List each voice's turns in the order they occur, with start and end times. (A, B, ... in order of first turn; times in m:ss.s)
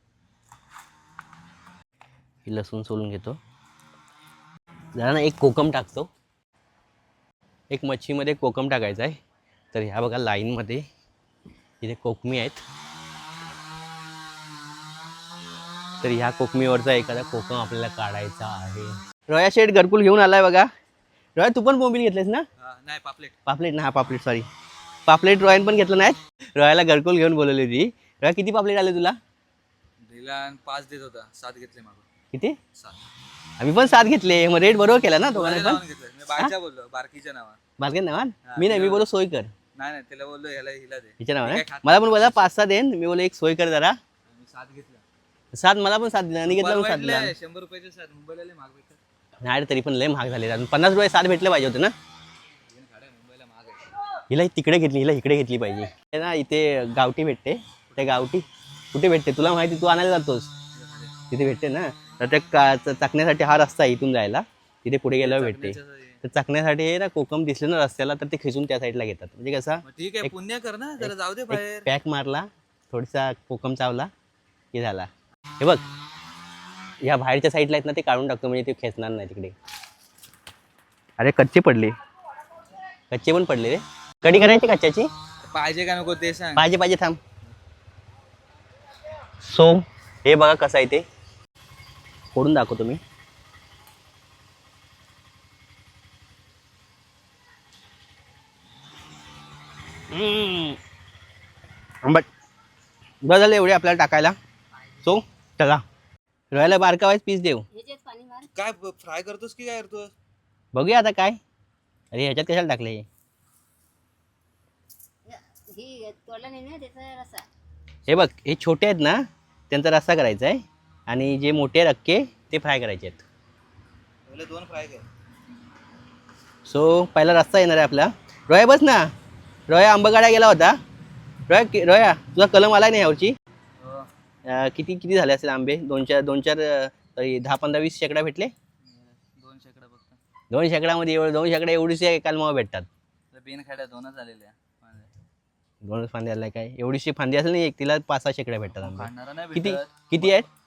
0:02.4-0:03.4 A
0:04.9-0:06.1 A
0:07.7-0:09.2 A
0:09.7-0:10.9 A
0:11.8-0:12.6 A
0:16.0-0:20.7 A
0:21.4-0:22.5 A
0:22.6-0:23.3 B
0:23.4-0:24.5 A
0:25.1-0:29.2 A
0:30.1-0:32.0 B
0:32.3-0:32.6 A
0:33.6-0:35.8 A
0:35.3-0:37.6 B
0:37.8-0:39.5 A
0:38.5-0:39.0 B
0:39.8-0:42.4 B
0:41.2-0:44.0 A
0:44.3-0:45.0 B
0:45.5-0:47.3 A
0:46.5-0:49.0 B
0:49.4-0:51.9 A
0:52.7-0:53.8 B
0:54.3-1:00.5 A
1:00.8-1:01.1 B
1:01.3-1:10.3 A
1:05.2-1:06.2 B
1:09.8-1:11.8 B
1:11.0-1:14.1 A
1:14.7-1:15.1 A
1:17.0-1:19.5 A
1:21.2-1:21.9 A
1:23.1-1:25.1 A
1:25.5-1:26.6 B
1:26.6-1:27.2 A
1:29.4-1:31.0 A
1:32.3-1:33.0 A
1:40.1-1:40.8 A
1:43.2-1:44.4 A
1:45.0-1:45.8 A
1:46.5-1:47.6 A
1:47.7-1:48.5 C
1:48.5-1:50.1 B
1:50.7-1:51.4 A
1:52.1-1:53.0 A
1:55.2-1:57.5 C
1:58.1-2:03.2 A
2:04.3-2:05.0 B
2:06.6-2:09.1 A
2:09.7-2:10.8 A
2:11.5-2:13.4 A
2:13.8-2:14.1 B
2:14.4-2:18.5 A
2:18.9-2:20.2 B
2:20.5-2:22.9 A
2:23.3-2:25.1 B
2:25.8-2:30.5 A
2:28.8-2:29.9 B